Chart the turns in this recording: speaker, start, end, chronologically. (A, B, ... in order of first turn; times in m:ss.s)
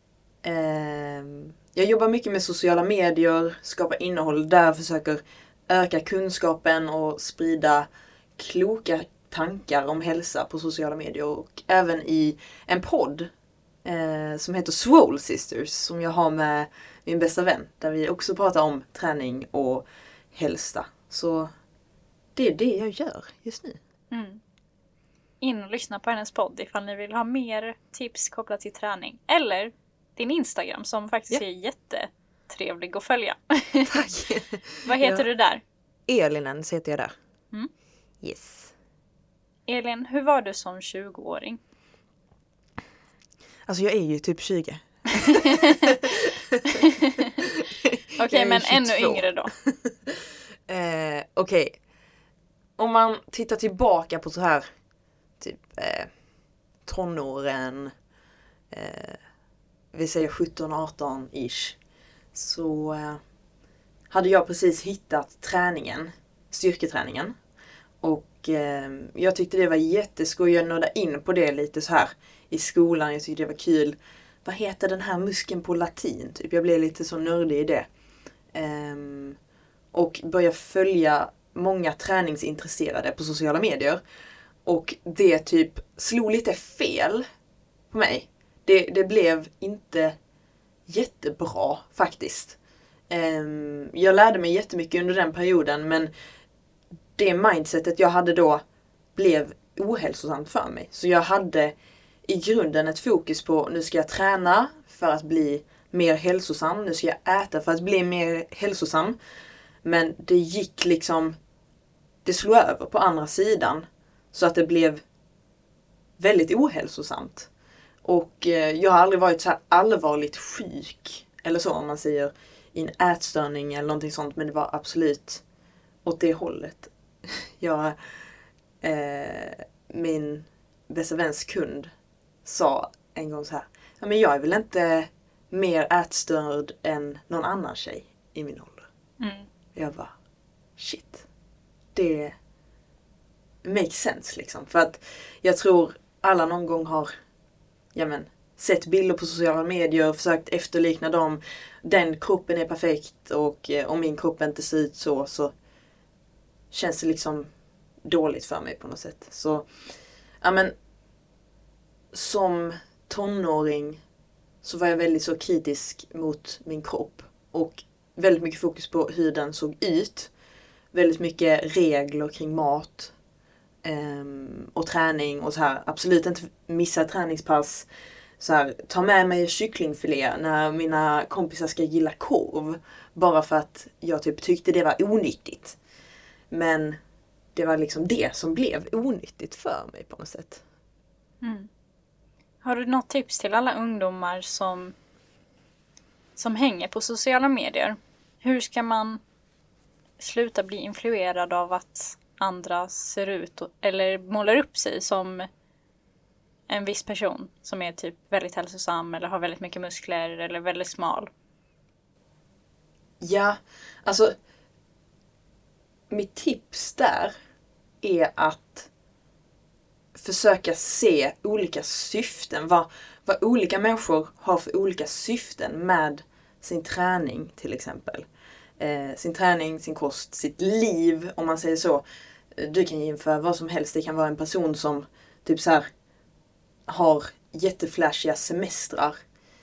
0:00.4-0:13.3 A
0:13.8-0:21.5 A
0:22.4-0:23.8 A
0:24.1-0:24.4 B
0:25.4-0:34.1 B
0:33.9-0:35.3 A
0:34.9-0:35.6 B
0:36.1-0:37.1 A
0:38.2-0:38.7 A
0:39.7-0:41.6 B
0:43.7-0:46.8 A
0:45.2-0:46.0 B
0:46.7-0:47.3 B
0:47.4-0:51.8 A
0:48.2-0:49.5 B
0:52.8-0:54.7 A
0:55.4-0:56.1 A
0:56.8-0:57.9 A
0:58.7-0:59.2 A
0:59.9-1:01.8 A
1:02.3-1:03.2 A
1:04.1-1:07.3 A
1:08.0-1:17.9 A
1:18.5-1:19.4 A
1:19.9-1:24.0 A
1:24.6-1:27.2 A
1:27.9-1:30.2 A
1:30.9-1:32.6 A
1:33.1-1:36.1 A
1:37.2-1:38.6 A
1:39.2-1:49.2 A
1:49.8-1:51.4 A
1:52.2-1:55.0 A
1:56.2-1:57.5 A
1:58.0-2:05.4 A
2:06.0-2:08.0 A
2:08.8-2:11.9 A
2:12.4-2:18.9 A
2:19.2-2:19.5 B
2:19.8-2:20.1 A
2:20.8-2:21.2 A
2:22.0-2:22.4 A
2:23.6-2:27.1 A
2:27.9-2:35.5 A
2:36.7-2:37.5 A
2:38.0-2:39.7 A
2:40.4-2:40.7 A
2:42.1-2:44.0 A
2:44.6-2:50.3 A
2:50.9-2:53.1 A
2:53.8-2:57.9 A
2:58.4-3:05.8 A
3:06.5-3:07.0 A
3:07.6-3:10.6 A
3:11.4-3:11.7 B
3:12.6-3:15.0 B
3:16.4-3:19.2 B
3:20.2-3:25.5 B
3:26.7-3:31.3 B
3:33.2-3:34.3 A
3:36.1-3:37.3 A
3:38.0-3:38.9 A
3:40.2-3:48.3 A
3:48.8-3:55.8 A
3:56.9-3:59.2 A